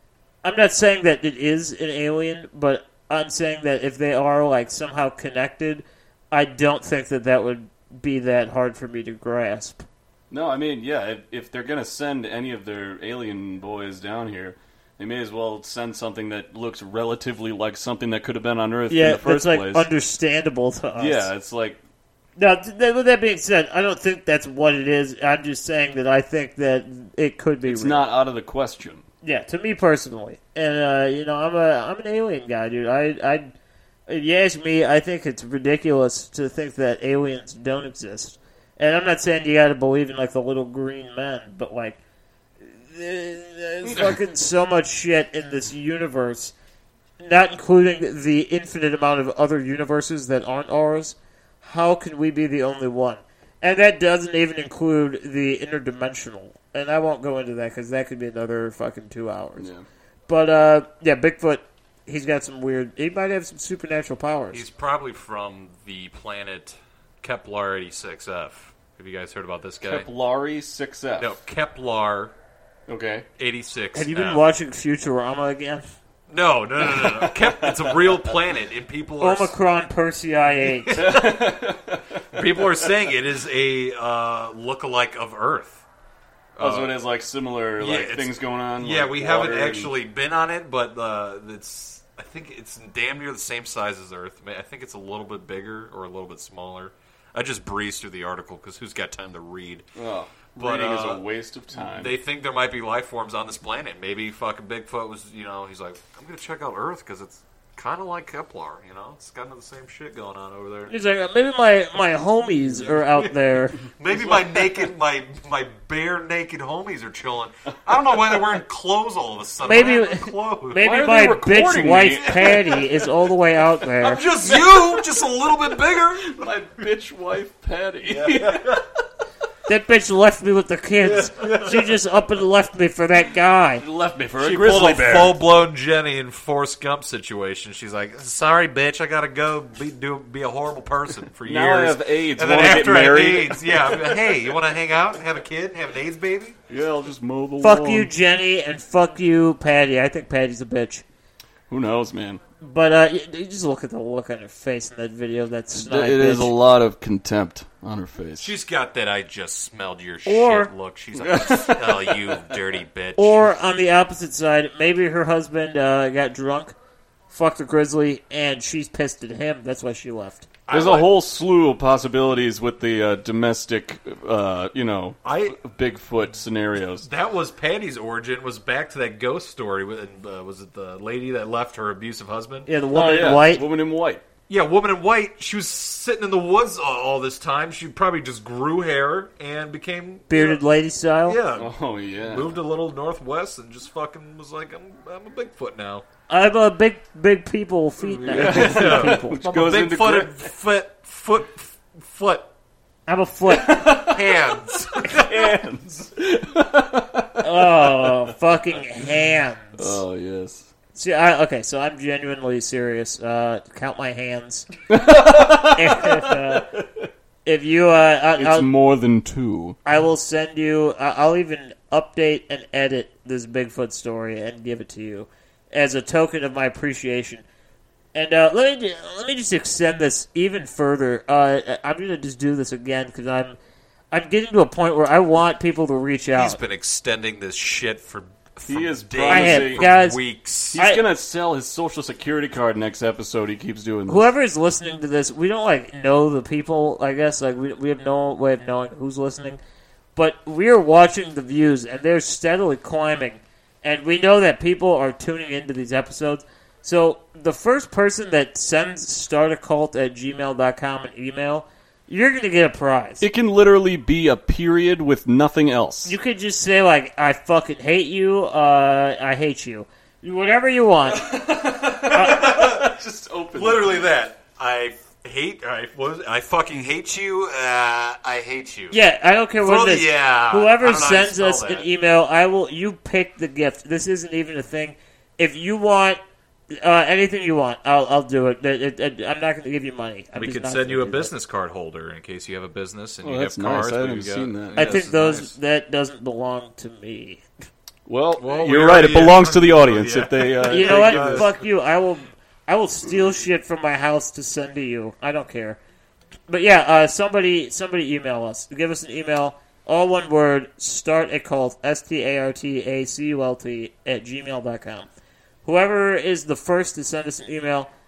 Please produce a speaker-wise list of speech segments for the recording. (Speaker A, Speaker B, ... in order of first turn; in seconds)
Speaker A: 0.4-9.8, 18.9-21.3, 22.4-28.1, 29.2-33.5, 34.1-42.0, 42.6-46.5, 47.2-59.7, 60.3-64.6, 73.9-75.8, 79.2-81.0, 110.9-113.8, 119.6-124.2, 129.7-133.8, 147.6-151.0, 152.6-156.5, 160.2-160.7, 163.2-166.7, 167.3-170.4, 182.7-183.6, 190.3-191.4, 196.3-199.4, 203.1-204.0, 207.4-210.0, 210.9-214.7, 215.4-216.7, 217.4-218.7, 219.8-227.4, 228.1-233.6, 234.1-236.6, 239.3-240.2, 240.8-241.0, 244.1-249.6, 250.2-263.2, 266.0-271.4, 272.1-272.4, 278.9-286.2, 286.7-291.3, 294.8-297.4, 300.6-305.8, 306.5-315.1, 315.6-317.9
Speaker B: 10.3-19.9, 20.9-21.8, 27.6-29.0, 43.8-44.1, 59.6-59.8, 69.8-71.3, 72.9-73.2, 76.8-78.4, 80.9-82.7, 86.6-89.9, 100.0-102.1, 114.1-114.5, 120.8-123.0, 124.2-125.0, 126.2-128.8, 133.8-135.4, 141.4-144.5, 146.7-148.1, 151.7-152.4, 155.7-158.5, 161.2-162.6, 170.7-177.1, 182.9-184.2, 191.5-192.6, 198.1-200.3, 203.5-208.3, 209.8-210.7, 214.9-216.8, 218.4-219.8, 238.7-239.9, 240.7-244.3, 263.2-266.1, 271.1-274.1, 293.2-294.9, 298.1-301.5
Speaker C: 64.5-70.1, 71.2-72.3, 73.4-74.4, 76.3-79.5, 80.9-81.5, 82.3-85.8, 86.5-87.0, 87.8-99.8, 100.5-110.9, 113.9-120.9, 122.2-122.6, 124.0-126.5, 128.0-128.8, 131.0-131.9, 134.4-146.6, 158.4-163.5, 170.7-171.2, 175.2-175.6, 177.0-182.7, 184.5-190.6, 191.3-196.0, 198.2-202.5, 203.9-205.6, 236.3-240.8, 272.0-273.0, 273.5-279.0, 279.6-281.9, 290.4-295.5, 298.4-301.5